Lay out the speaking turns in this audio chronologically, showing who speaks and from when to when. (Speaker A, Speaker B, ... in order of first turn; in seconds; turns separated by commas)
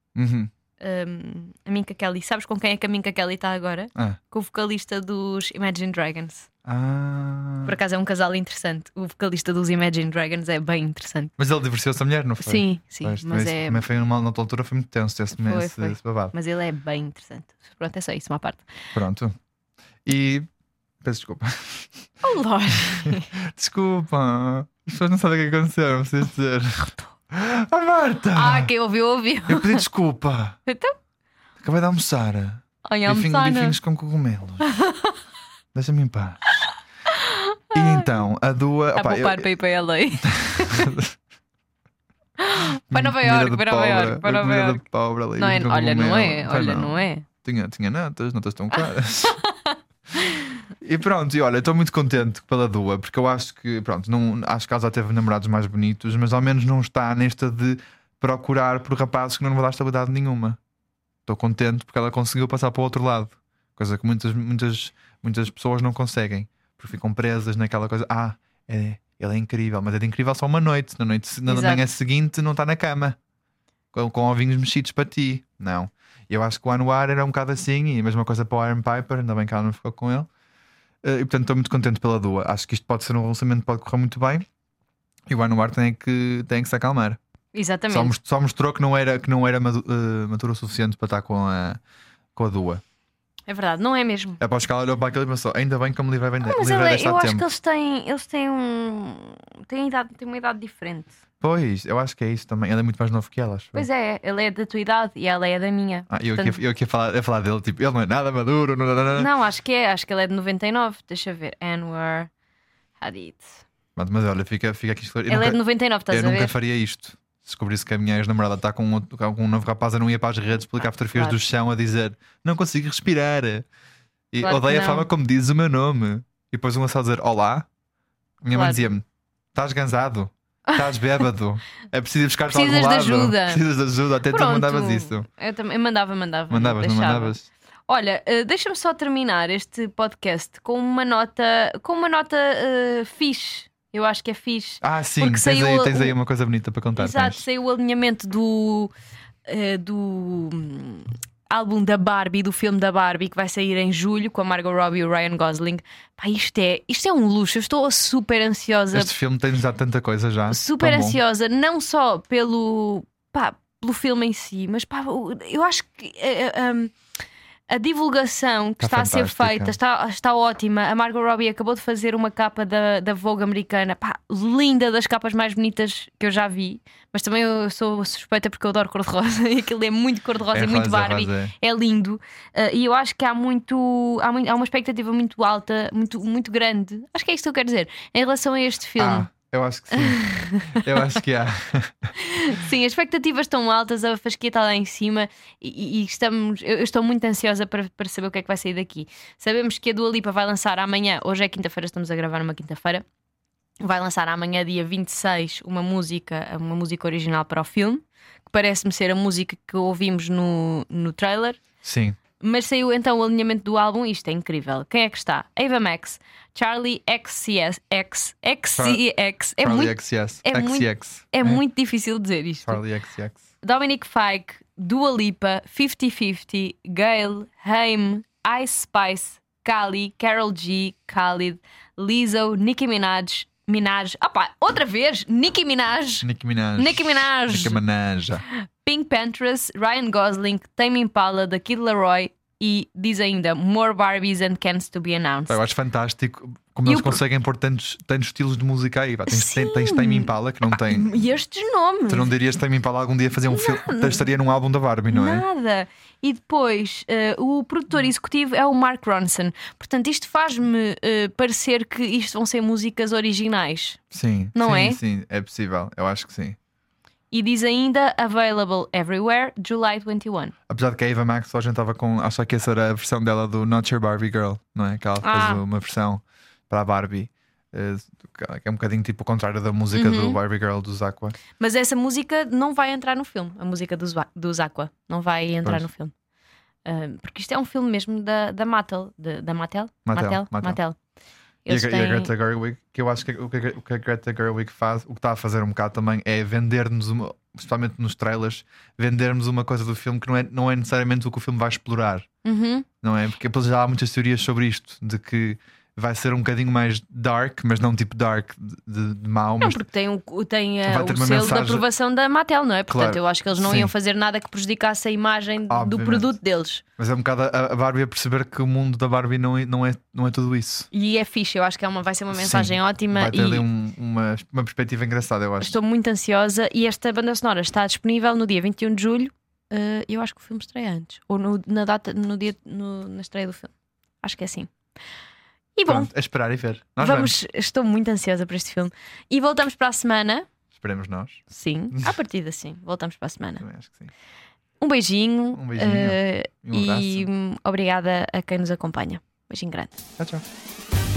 Speaker A: 0.1-0.5, Speaker B: 0.8-6.5, Speaker A: 6.6-7.7, Speaker B: 7.6-11.3, Speaker A: 11.4-16.3, Speaker B: 12.4-13.8, Speaker B: 15.3-18.7, Speaker A: 18.9-19.3, Speaker A: 20.0-20.5, Speaker A: 21.0-22.1, Speaker B: 22.2-23.3, Speaker A: 22.9-28.7, Speaker B: 28.3-29.8, Speaker A: 29.5-30.6, Speaker B: 30.6-30.9, Speaker A: 31.6-34.6, Speaker B: 32.8-33.8, Speaker B: 34.6-35.2, Speaker A: 35.7-36.7, Speaker B: 37.1-38.1, Speaker A: 37.7-39.5, Speaker B: 38.9-40.9, Speaker A: 40.2-41.2, Speaker B: 42.4-44.8, Speaker A: 42.9-49.4, Speaker B: 45.4-47.2, Speaker B: 48.8-50.5, Speaker A: 50.8-60.6, Speaker A: 61.2-73.2, Speaker B: 71.5-71.8, Speaker A: 73.9-80.3, Speaker A: 81.0-84.5, Speaker A: 85.3-87.2, Speaker B: 87.5-88.1, Speaker A: 87.9-91.8, Speaker A: 92.3-92.8, Speaker B: 93.5-94.4, Speaker A: 94.4-97.5, Speaker B: 96.4-101.2, Speaker A: 101.4-103.9, Speaker B: 103.7-106.6, Speaker A: 106.1-109.3, Speaker B: 109.1-112.3, Speaker B: 113.0-113.6, Speaker A: 114.0-123.7, Speaker B: 115.3-116.5, Speaker B: 121.1-121.4, Speaker A: 124.3-127.7, Speaker B: 124.4-125.1, Speaker A: 128.4-135.3, Speaker B: 128.5-128.8, Speaker B: 132.5-133.6, Speaker B: 134.2-137.3, Speaker A: 136.5-137.5, Speaker B: 137.9-146.2, Speaker A: 144.8-147.4, Speaker B: 147.0-148.9, Speaker B: 149.5-159.1, Speaker A: 158.9-161.2, Speaker B: 160.5-166.9, Speaker B: 167.7-189.3, Speaker A: 168.8-169.8, Speaker A: 180.5-181.5, Speaker A: 189.0-192.1, Speaker B: 189.9-191.0, Speaker B: 192.2-203.0, Speaker B: 203.8-211.6, Speaker A: 211.8-212.2, Speaker B: 212.4-222.8, Speaker A: 219.6-221.6, Speaker A: 222.6-223.4, Speaker B: 223.6-237.8, Speaker A: 236.2-238.4, Speaker B: 238.5-245.6, Speaker A: 245.5-251.1, Speaker B: 246.8-247.2, Speaker B: 249.3-252.3, Speaker A: 252.1-255.4, Speaker B: 253.5-254.2, Speaker B: 255.1-264.0, Speaker A: 264.1-266.6, Speaker B: 264.5-265.0, Speaker B: 267.3-270.5, Speaker A: 270.7-281.3, Speaker B: 275.2-275.6, Speaker B: 279.9-280.4, Speaker B: 281.6-286.1, Speaker A: 285.6-285.9, Speaker B: 286.8-290.9, Speaker A: 290.1-290.8, Speaker B: 291.6-292.3, Speaker A: 291.7-302.3, Speaker B: 302.4-302.9, Speaker A: 303.0-309.8, Speaker B: 309.6-316.8, Speaker A: 310.9-311.9, Speaker A: 312.9-313.9, Speaker A: 315.7-316.3, Speaker A: 317.0-320.9, Speaker B: 320.9-323.6, Speaker A: 322.3-325.7, Speaker B: 325.6-334.7, Speaker B: 335.7-336.1, Speaker A: 335.9-337.3, Speaker B: 337.0-340.5, Speaker A: 340.7-342.1, Speaker B: 341.5-343.6, Speaker A: 343.6-344.1, Speaker B: 344.8-350.0, Speaker A: 345.5-347.3, Speaker A: 350.2-350.4